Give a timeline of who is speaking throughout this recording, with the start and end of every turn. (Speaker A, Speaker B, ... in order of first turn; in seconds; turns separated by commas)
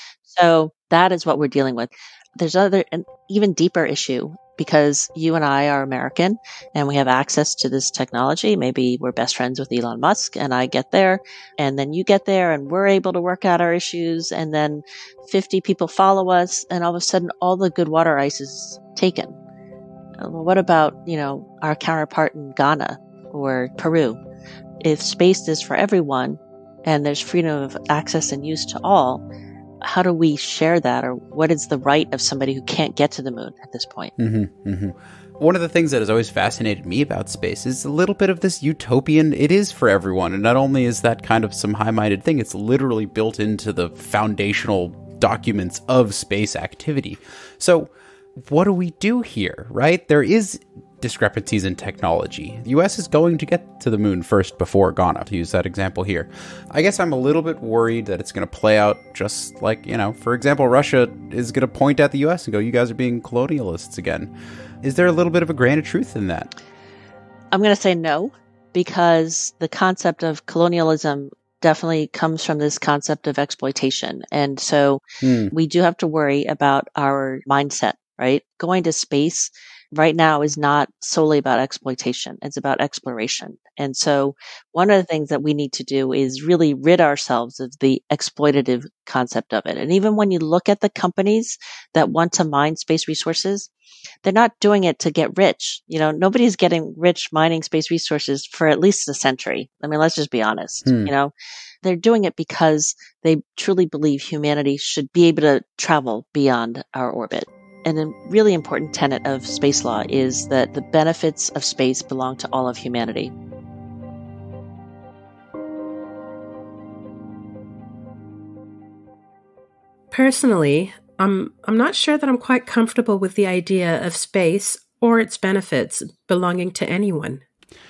Speaker A: 0.3-19.4, Speaker A: 20.2-24.2, Speaker A: 24.8-29.2, Speaker A: 29.8-34.1, Speaker B: 34.2-64.3, Speaker B: 64.8-66.5, Speaker A: 67.5-93.7, Speaker B: 75.2-75.5, Speaker A: 94.2-101.3, Speaker B: 100.8-101.1, Speaker A: 101.8-113.3, Speaker C: 120.1-127.4